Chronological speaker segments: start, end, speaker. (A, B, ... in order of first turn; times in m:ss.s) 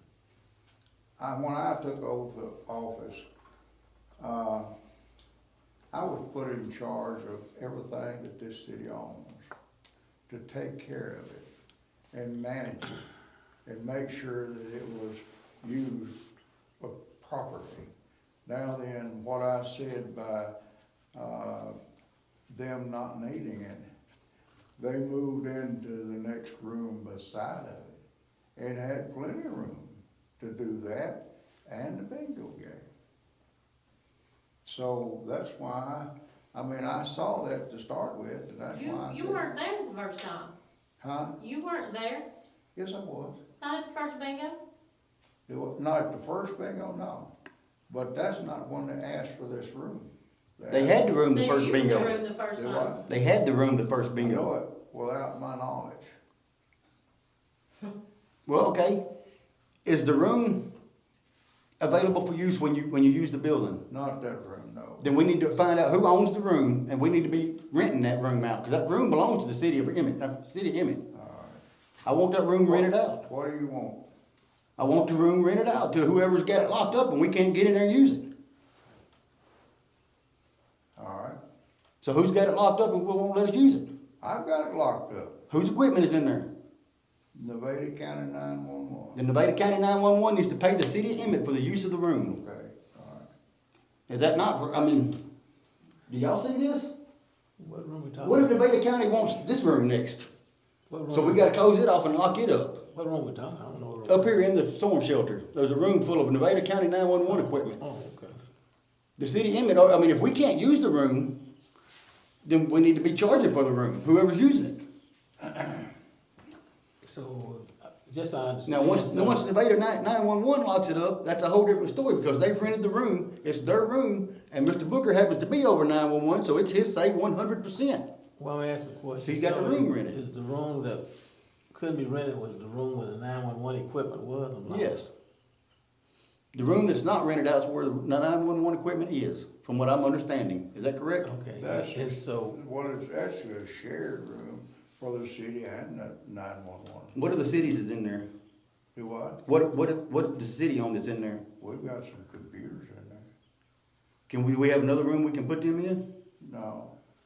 0:01.2-0:03.2 A
0:04.2-0:04.7 A
0:05.9-0:09.4 A
0:10.3-0:11.5 A
0:12.1-0:13.0 A
0:13.6-0:16.2 A
0:16.8-0:17.9 A
0:18.4-0:20.5 A
0:21.1-0:21.8 A
0:22.5-0:23.9 A
0:24.8-0:28.0 A
0:28.6-0:32.8 A
0:34.6-0:39.5 A
0:38.7-0:40.5 B
0:41.0-0:41.4 A
0:41.4-0:42.2 B
0:42.8-0:43.4 A
0:43.6-0:44.6 B
0:45.5-0:47.3 A
0:47.9-0:51.0 A
0:50.7-0:52.2 C
0:51.3-0:52.9 B
0:52.5-0:53.0 A
0:53.1-0:54.5 C
0:54.2-0:56.1 A
0:58.5-0:59.0 C
0:59.8-1:00.6 C
1:01.8-1:03.8 C
1:03.9-1:05.0 A
1:05.0-1:11.0 C
1:11.1-1:11.6 A
1:12.0-1:13.2 C
1:12.7-1:14.0 A
1:14.8-1:18.2 C
1:21.0-1:21.4 A
1:22.0-1:23.8 C
1:24.2-1:25.4 A
1:25.5-1:26.4 C
1:27.3-1:29.2 A
1:29.1-1:32.4 C
1:32.3-1:33.3 A
1:34.1-1:35.1 C
1:36.1-1:36.9 C
1:37.6-1:38.5 D
1:38.2-1:40.3 C
1:40.9-1:41.5 D
1:41.1-1:42.8 C
1:42.9-1:44.5 D
1:44.1-1:47.8 C
1:47.3-1:48.4 D
1:49.2-1:51.3 C
1:52.4-1:54.8 C
1:57.0-1:59.4 D
1:58.7-2:08.0 C
2:08.4-2:11.0 D
2:09.2-2:10.2 C
2:11.7-2:15.0 D
2:14.7-2:15.0 C
2:16.5-2:21.3 C
2:21.2-2:22.6 D
2:21.6-2:27.1 A
2:27.1-2:28.2 C
2:28.9-2:29.4 A
2:29.4-2:31.4 C
2:31.6-2:33.3 A
2:34.3-2:36.0 C
2:36.4-2:36.9 A